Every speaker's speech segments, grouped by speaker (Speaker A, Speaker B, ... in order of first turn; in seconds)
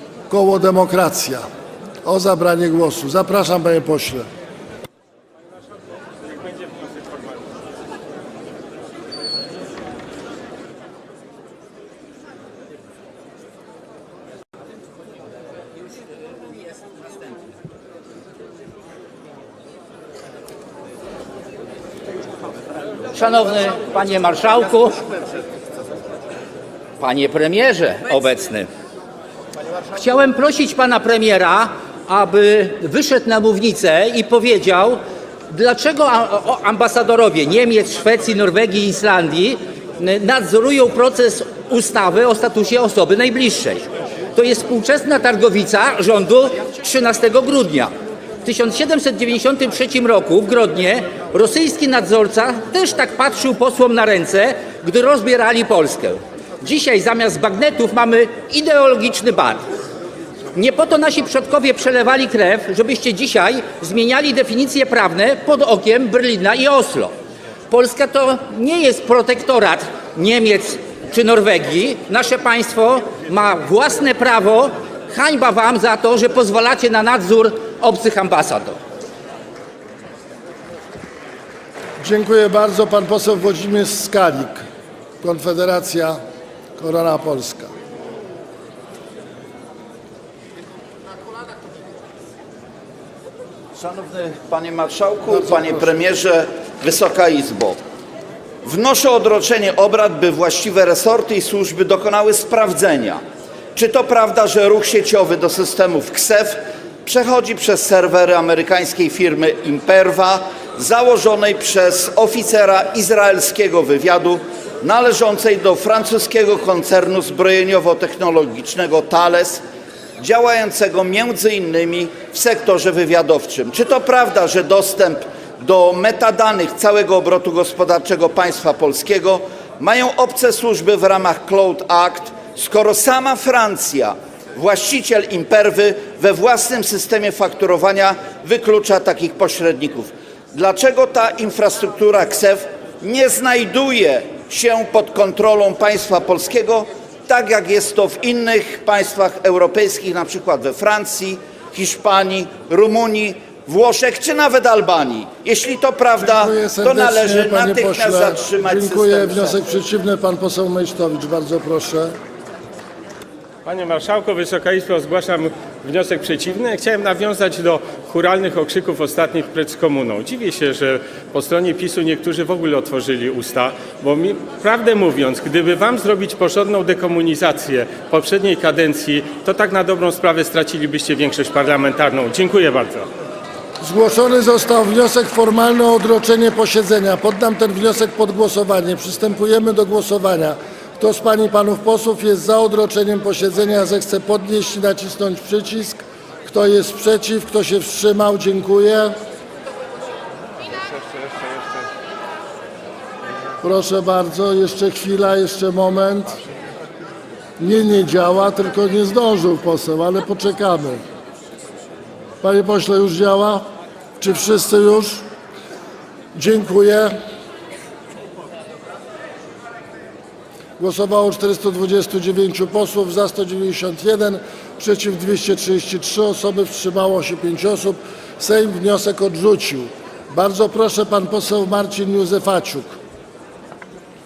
Speaker A: 0.3-1.4, 2.0-4.3, 82.0-84.6, 85.2-86.2, 86.8-87.7, 95.3-95.8, 156.2-162.1, 183.8-199.2, 203.6-206.4, 207.6-211.0, 212.4-213.7, 214.2-215.2, 216.3-217.2, 220.8-232.9
Speaker B: 23.1-25.0, 27.0-28.7, 29.9-47.9, 48.4-59.6, 60.5-67.1, 67.7-78.8
Speaker C: 93.8-97.8, 98.6-103.2, 103.7-119.6, 120.2-159.6
Speaker D: 163.6-183.1